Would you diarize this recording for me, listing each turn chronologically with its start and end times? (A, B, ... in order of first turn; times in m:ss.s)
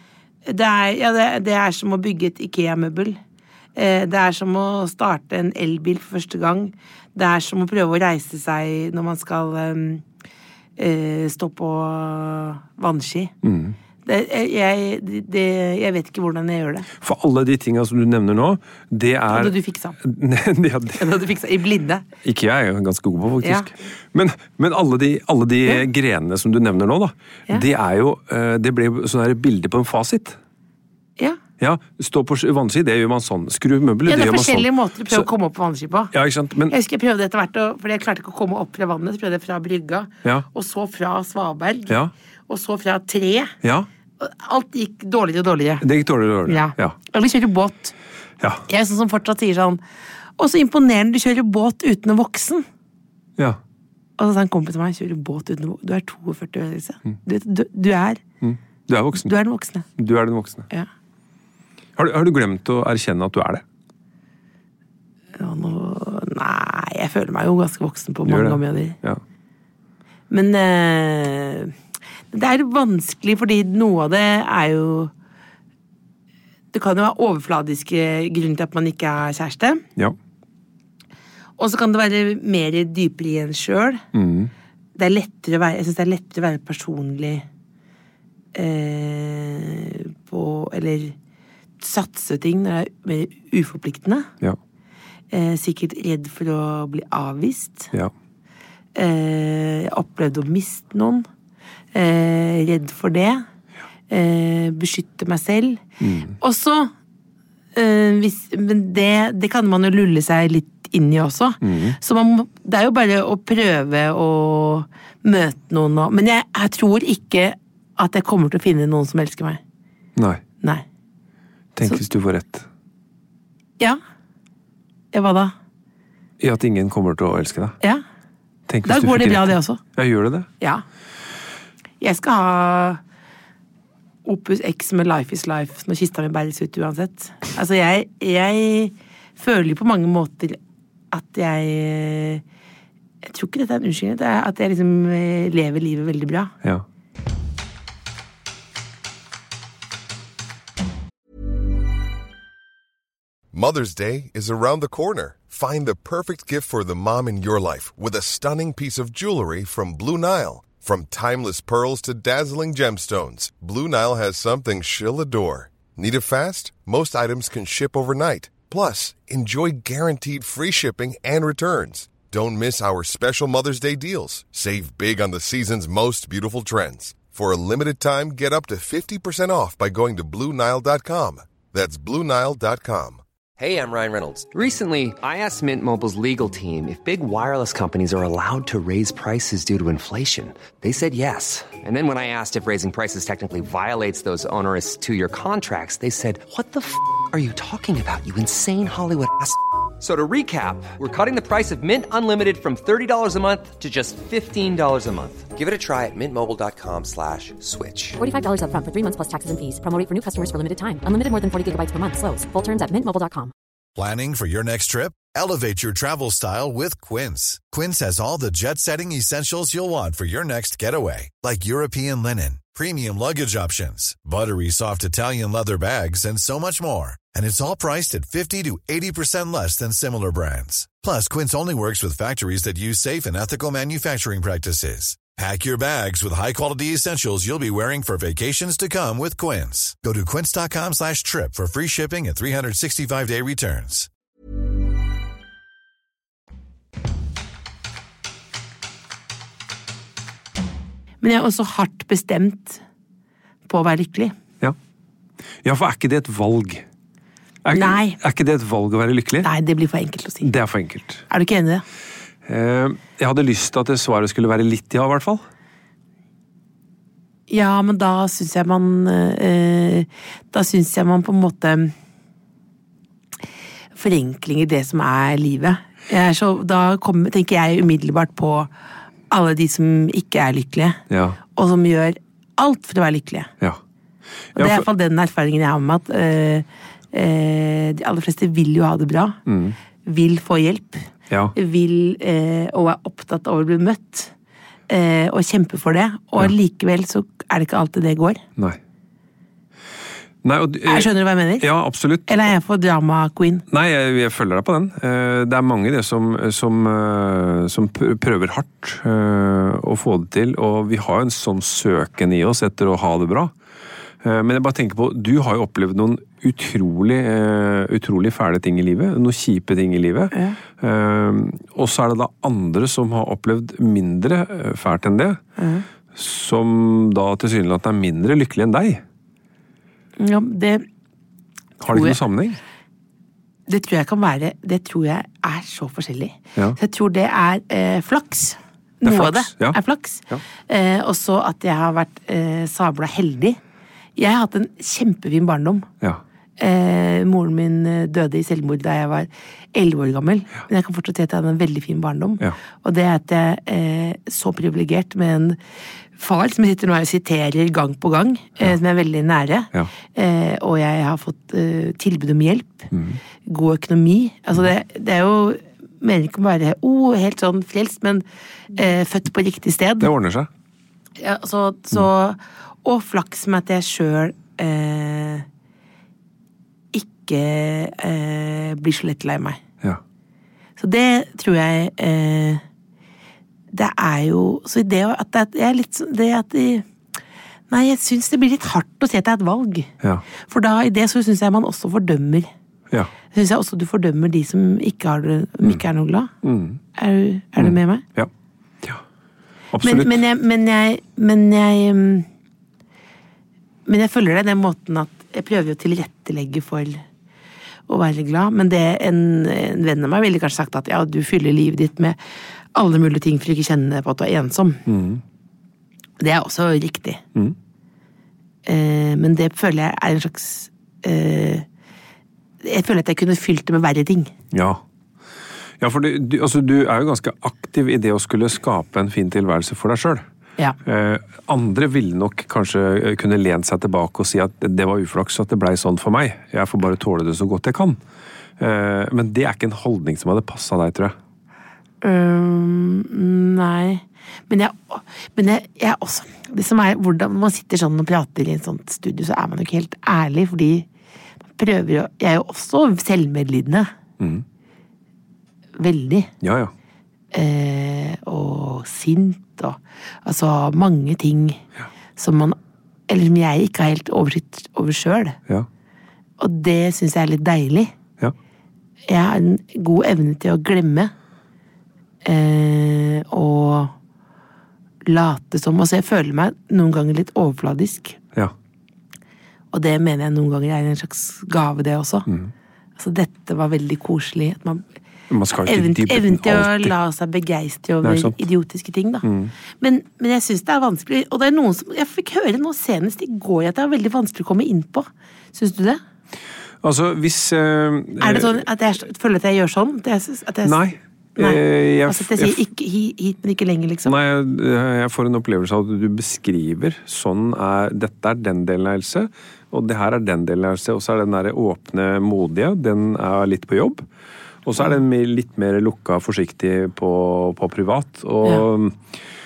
0:00.4-0:03.2 A
0:03.7-0:10.0 A
0:10.8-0:13.3 A
0:13.4-0:13.8 B
0:14.0-0:16.9 A
0:17.0-0:21.0 B
0:19.3-0:20.0 A
0:21.0-0:22.0 A
0:22.2-0:30.4 B
0:23.4-0:23.7 A
0:31.6-0:35.3 B
0:34.1-0:36.1 A
0:36.1-0:36.7 B
0:36.7-0:43.5 A
0:43.6-0:43.9 B
0:44.2-0:45.8 A
0:45.8-0:47.0 B
0:46.5-0:47.9 A
0:48.7-0:49.8 A
0:50.4-0:52.6 A
0:54.2-0:58.2 A
0:58.4-0:59.3 B
0:59.2-0:59.9 A
1:00.0-1:00.7 B
1:02.0-1:03.6 B
1:05.4-1:09.0 A
1:08.2-1:09.2 B
1:10.3-1:11.7 A
1:12.3-1:15.1 A
1:16.7-1:19.8 A
1:21.6-1:24.0 A
1:24.1-1:24.5 B
1:25.0-1:27.4 A
1:28.5-1:31.1 A
1:31.8-1:34.3 A
1:35.3-1:37.9 A
1:38.9-1:41.2 A
1:41.9-1:43.4 A
1:44.1-1:45.8 A
1:46.0-1:46.4 B
1:46.4-1:46.9 A
1:47.7-1:59.6 A
1:51.6-1:52.0 B
2:00.2-2:00.4 B
2:01.7-2:02.6 B
2:05.1-2:05.5 A
2:06.4-2:07.8 B
2:08.7-2:10.5 B
2:08.8-2:09.8 A
2:12.0-2:13.0 A
2:14.2-2:20.6 A
2:21.1-2:22.4 A
2:23.2-2:26.5 A
2:33.5-3:03.2 C
3:03.6-3:28.2 D
3:28.2-3:33.5 E
3:34.0-4:04.1 F
4:11.2-4:12.8 A
4:13.7-4:14.3 A
4:15.6-4:16.8 B
4:17.6-4:19.5 B
4:17.7-4:18.2 A
4:19.4-4:20.5 A
4:20.4-4:21.2 B
4:21.3-4:21.8 A
4:22.4-4:25.4 B
4:27.5-4:31.9 A
4:33.9-4:38.7 A
4:39.3-4:41.0 A
4:41.1-4:41.4 B
4:41.5-4:43.5 A
4:44.6-4:44.8 B
4:44.6-4:49.4 A
4:49.5-4:49.8 B
4:50.0-4:54.3 A
4:51.3-4:51.5 B
4:54.9-4:58.4 A
5:00.4-5:02.4 B
5:00.8-5:01.6 A
5:02.3-5:03.6 A
5:03.7-5:13.5 B
5:14.2-5:25.4 B
5:20.3-5:20.6 A
5:25.6-5:25.8 A
5:26.1-5:29.0 B
5:30.2-5:30.8 A
5:31.8-5:32.6 B
5:31.9-5:32.2 A
5:33.7-5:43.6 A
5:39.0-5:39.8 B
5:44.2-5:45.8 A
5:46.6-5:55.6 A
5:56.2-6:02.9 A
6:02.9-6:03.2 B
6:03.4-6:10.1 A
6:10.0-6:10.5 B
6:11.2-6:15.4 A
6:16.9-6:19.6 A
6:20.8-6:22.6 A
6:23.7-6:26.8 A
6:27.7-6:29.9 A
6:30.4-6:32.5 A
6:33.3-6:36.3 A
6:36.4-6:36.8 B
6:36.9-6:38.0 A
6:37.6-6:38.3 B
6:39.7-6:40.2 B
6:39.8-6:42.3 A
6:43.9-6:47.0 A
6:47.9-6:52.2 A
6:52.7-6:54.8 A
6:54.9-6:55.2 B
6:56.2-6:57.2 A
6:58.6-7:01.6 A
7:02.6-7:04.3 A
7:04.5-7:04.8 B
7:05.8-7:10.2 B
7:10.8-7:18.0 B
7:18.6-7:21.1 B
7:22.0-7:30.9 A
7:31.6-7:33.9 A
7:35.8-7:36.3 A
7:36.4-7:36.7 B
7:37.3-7:41.6 A
7:42.2-7:42.6 A
7:43.1-7:45.4 A
7:46.4-7:47.9 A
7:49.1-7:51.1 A
7:52.2-7:53.9 A
7:55.0-7:58.2 A
7:59.7-8:02.3 A
8:03.0-8:04.8 A
8:05.3-8:06.9 B
8:05.6-8:09.2 A
8:08.0-8:08.4 B
8:09.2-8:09.5 B
8:09.8-8:16.0 A
8:16.8-8:18.6 B
8:18.2-8:20.8 A
8:20.6-8:22.6 B
8:21.4-8:24.1 A
8:24.0-8:34.0 B
8:34.6-8:39.0 B